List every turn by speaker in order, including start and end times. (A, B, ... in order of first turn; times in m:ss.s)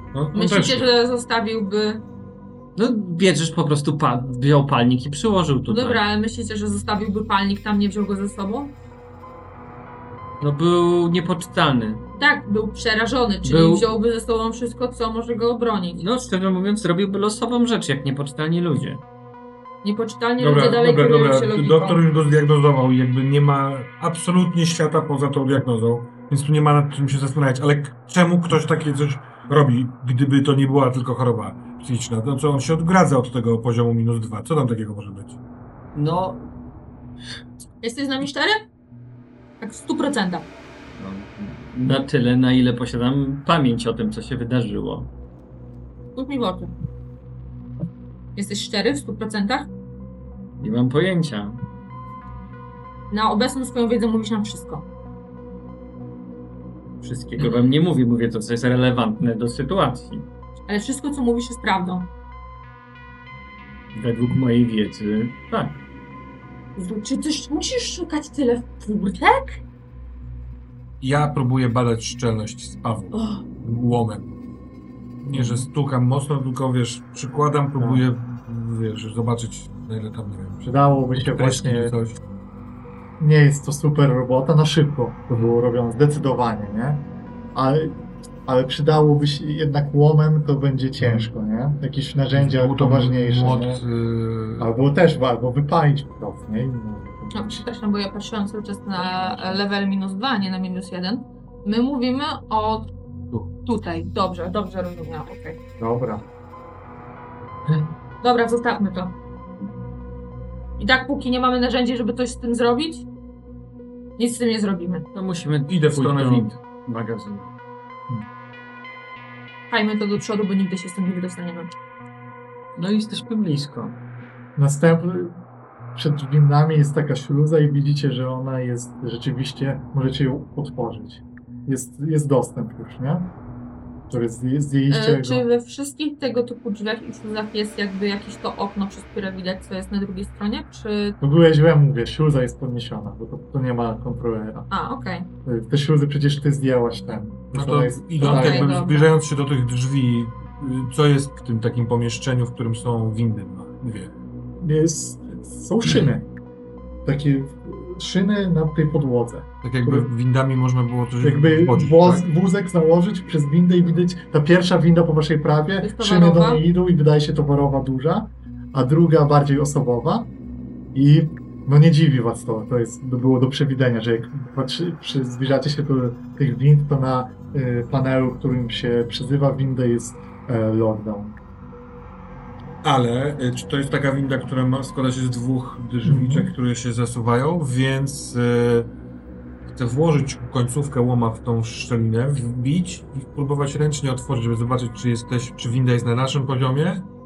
0:00.1-0:00.9 A
0:00.3-0:02.0 B
0:02.8-0:06.0 C
0:05.7-0:08.8 B
0:10.4-0:12.0 C
0:12.2-0:16.0 B
0:13.4-0:13.9 C
0:15.9-0:19.0 C
0:19.8-0:22.0 B
0:20.4-0:35.4 A
0:36.0-0:36.5 C
0:37.8-0:38.6 B
0:39.6-0:40.5 B
0:41.0-0:45.1 C
0:46.2-0:46.7 B
0:48.4-0:49.7 B
0:50.6-0:51.6 C
0:53.1-0:54.8 B
0:57.0-1:00.3 C
1:00.7-1:02.1 B
1:03.9-1:05.8 C
1:06.8-1:09.6 B
1:11.0-1:14.4 A
1:13.1-1:13.4 B
1:15.2-1:22.2 A
1:15.3-1:15.7 D
1:17.8-1:18.0 D
1:20.6-1:21.9 D
1:23.2-1:33.8 D
1:31.0-1:31.3 A
1:32.3-1:34.7 A
1:34.6-1:37.7 D
1:37.3-1:42.9 B
1:39.0-1:39.6 D
1:43.6-1:45.6 B
1:45.8-1:46.3 D
1:48.2-1:49.1 B
1:50.8-1:53.1 B
1:54.2-1:55.1 B
1:55.1-1:57.5 C
1:55.7-1:56.5 A
1:59.7-2:01.7 B
2:02.8-2:04.0 C
2:04.6-2:05.4 D
2:06.0-2:13.3 D
2:14.1-2:15.4 D
2:14.9-2:21.2 B
2:21.2-2:24.7 D
2:24.7-2:25.3 B
2:25.4-2:28.8 D
2:27.5-2:34.1 A
2:28.2-2:29.1 B
2:34.6-2:36.3 D
2:37.0-2:40.1 D
2:39.6-2:42.3 A
2:41.2-2:50.3 D
2:45.8-2:46.6 B
2:50.9-3:01.4 D
3:02.8-3:08.9 A
3:06.0-3:06.5 D
3:09.7-3:17.1 A